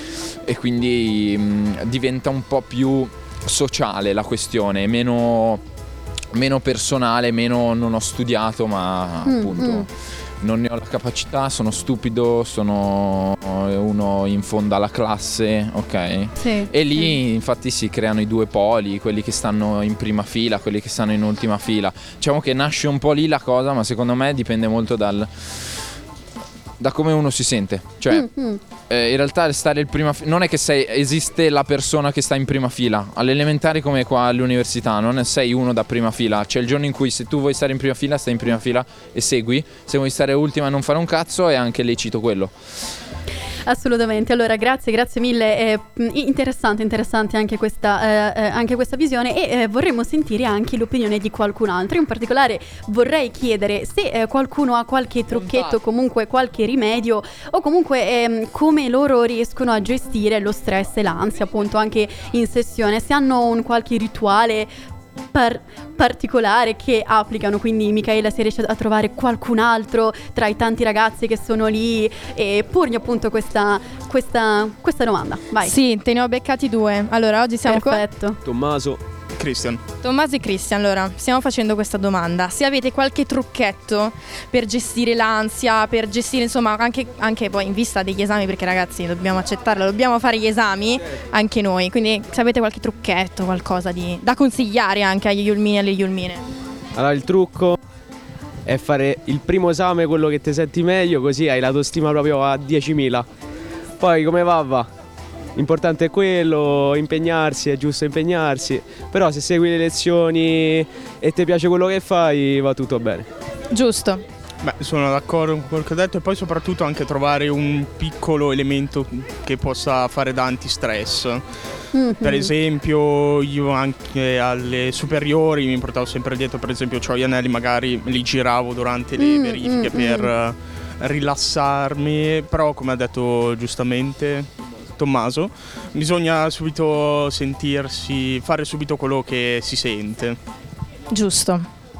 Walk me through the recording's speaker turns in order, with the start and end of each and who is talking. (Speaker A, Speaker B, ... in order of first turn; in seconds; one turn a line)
Speaker A: 0.4-5.6
Speaker A: 6.3-9.9
Speaker B: 9.2-9.8
Speaker A: 10.4-25.7
Speaker B: 16.4-17.1
Speaker A: 26.8-28.3
Speaker B: 28.1-28.6
Speaker A: 28.9-42.5
Speaker B: 43.7-64.7
Speaker A: 55.3-55.7
Speaker B: 65.3-75.7
Speaker C: 75.6-78.0
Speaker B: 77.7-78.4
Speaker D: 78.4-79.0
Speaker E: 79.3-79.8
Speaker C: 80.0-96.4
Speaker D: 96.9-97.8
Speaker D: 98.6-103.3
Speaker D: 104.0-104.9
Speaker D: 105.5-113.3
Speaker C: 113.7-114.2
Speaker E: 114.6-121.4
Speaker B: 121.9-122.5
Speaker E: 122.2-140.4
Speaker B: 129.2-130.3
Speaker C: 141.1-141.7